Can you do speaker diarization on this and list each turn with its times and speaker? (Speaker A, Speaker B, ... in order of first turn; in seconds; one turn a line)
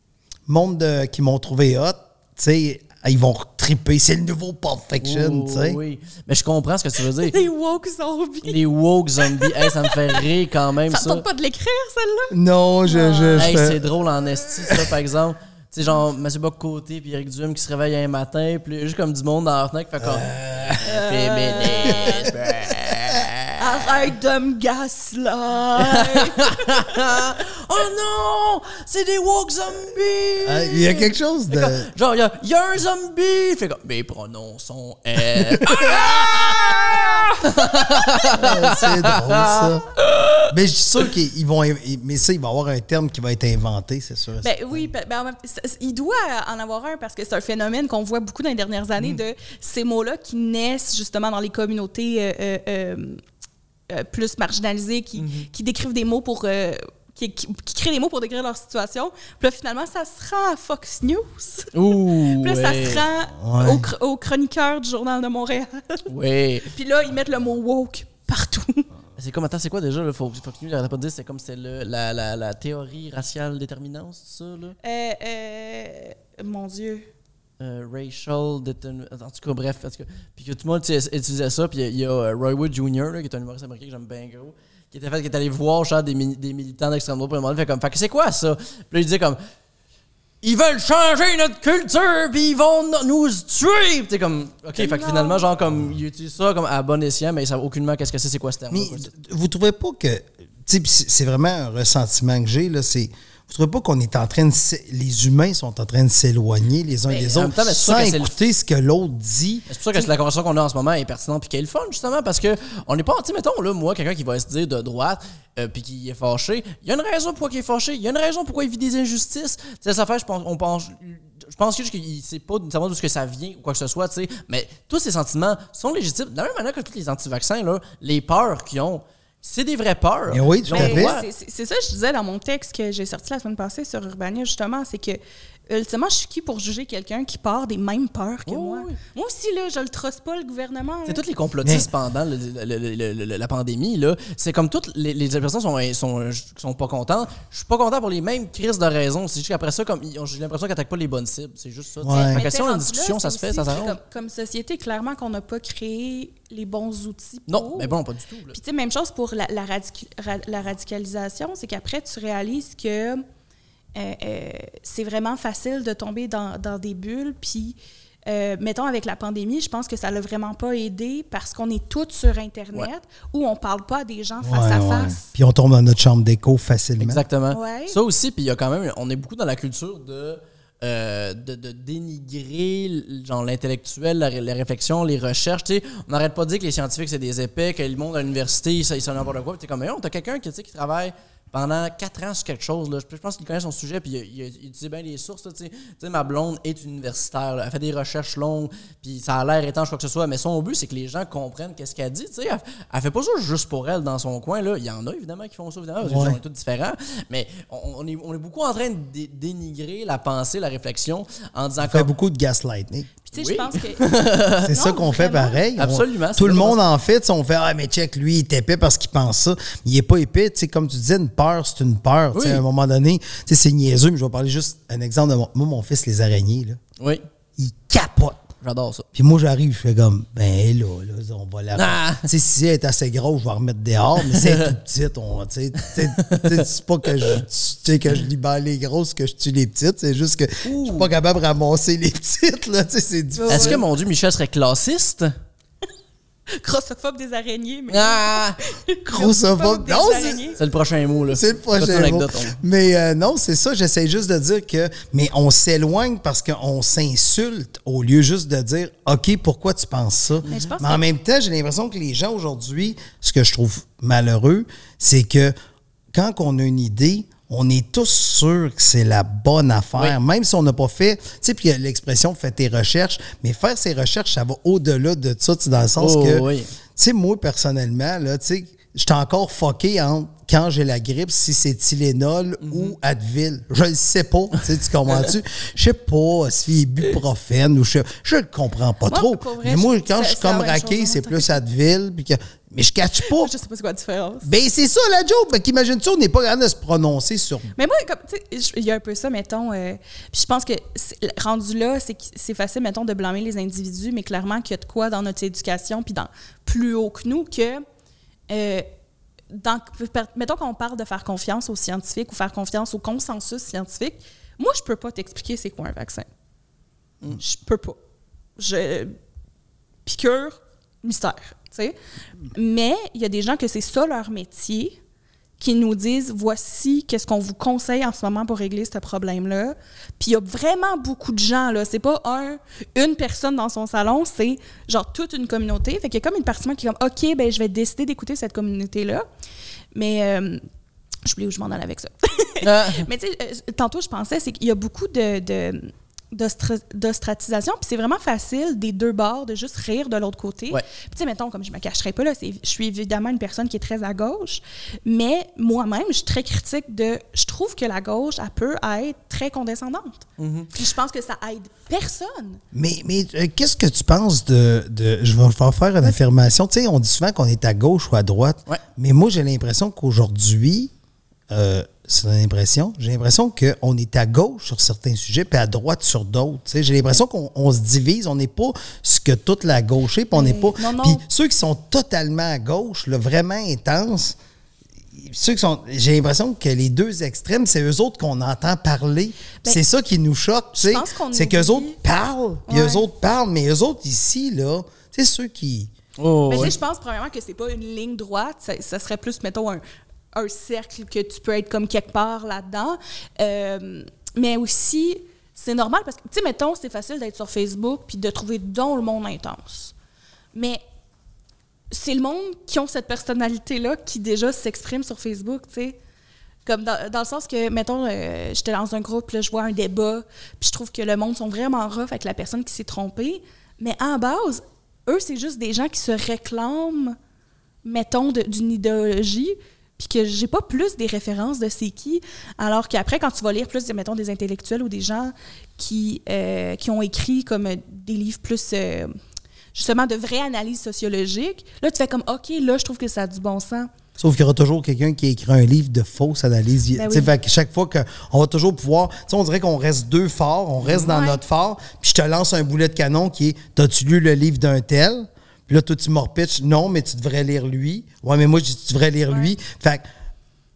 Speaker A: 0.5-5.8
Speaker B: 5.0-7.4
Speaker C: 7.2-8.6
Speaker B: 8.4-11.2
Speaker C: 9.2-10.2
Speaker C: 10.9-12.3
Speaker A: 12.3-13.9
Speaker C: 12.8-13.5
Speaker B: 13.4-23.5
Speaker A: 20.0-20.9
Speaker C: 20.8-22.3
Speaker A: 21.8-23.2
Speaker C: 23.6-27.2
Speaker B: 25.8-30.9
Speaker A: 30.4-31.9
Speaker B: 31.5-40.5
Speaker A: 35.5-36.8
Speaker A: 38.3-39.9
Speaker A: 40.4-44.9
Speaker C: 44.4-53.2
Speaker C: 53.9-66.1
Speaker B: 55.2-55.5
Speaker B: 61.7-63.0
Speaker A: 63.4-63.9
Speaker B: 66.1-66.7
Speaker C: 66.6-68.8
Speaker B: 69.2-74.8
Speaker C: 74.8-77.1
Speaker B: 77.6-89.4
Speaker B: 90.4-99.1
Speaker C: 94.8-95.5
Speaker A: 98.7-109.7
Speaker B: 107.1-108.3
Speaker B: 109.7-131.2
Speaker A: 130.3-131.2
Speaker C: 130.7-141.2
Speaker B: 138.4-139.0
Speaker B: 141.1-154.0
Speaker A: 141.6-141.9
Speaker A: 152.0-152.4
Speaker C: 152.2-163.2
Speaker B: 157.5-158.6
Speaker C: 163.9-175.3
Speaker A: 174.4-177.2
Speaker B: 177.0-212.1
Speaker C: 177.5-178.0
Speaker A: 206.0-206.4
Speaker A: 211.8-213.1
Speaker C: 213.2-215.6
Speaker B: 213.3-214.8
Speaker A: 214.6-226.8
Speaker B: 215.8-216.8
Speaker B: 222.3-222.6
Speaker A: 227.6-228.4
Speaker B: 228.6-229.1
Speaker A: 229.1-243.8
Speaker B: 231.8-232.3
Speaker B: 234.2-234.7
Speaker B: 235.9-237.4
Speaker B: 240.6-241.1
Speaker C: 243.3-243.8
Speaker B: 243.5-245.3
Speaker C: 246.5-250.6
Speaker B: 247.9-248.6
Speaker A: 249.1-250.5
Speaker B: 250.6-252.6
Speaker A: 251.3-265.5
Speaker B: 260.4-260.7
Speaker C: 260.4-261.0
Speaker A: 266.1-276.4
Speaker B: 276.0-276.7
Speaker A: 276.9-293.5
Speaker B: 282.6-283.0
Speaker C: 289.1-291.6
Speaker C: 293.2-294.5
Speaker A: 294.4-297.7
Speaker C: 297.7-307.8
Speaker C: 308.5-308.9
Speaker C: 309.5-316.3
Speaker C: 317.4-318.0
Speaker C: 318.6-319.1
Speaker C: 320.0-321.9
Speaker C: 322.5-325.0
Speaker C: 325.6-339.2
Speaker C: 339.9-340.6
Speaker C: 341.2-362.6
Speaker B: 342.6-343.1
Speaker B: 360.4-360.7
Speaker A: 362.7-370.9
Speaker A: 371.5-384.4
Speaker C: 380.3-381.2
Speaker A: 385.1-395.9
Speaker C: 390.7-392.0
Speaker C: 392.7-393.1
Speaker B: 396.2-396.8
Speaker C: 396.5-399.8
Speaker C: 400.3-409.9
Speaker C: 410.5-410.8
Speaker C: 411.9-416.0
Speaker C: 416.6-427.2
Speaker C: 427.8-439.1
Speaker C: 439.7-443.9
Speaker A: 444.2-460.0
Speaker C: 446.9-447.3
Speaker B: 450.8-451.1
Speaker C: 451.0-451.4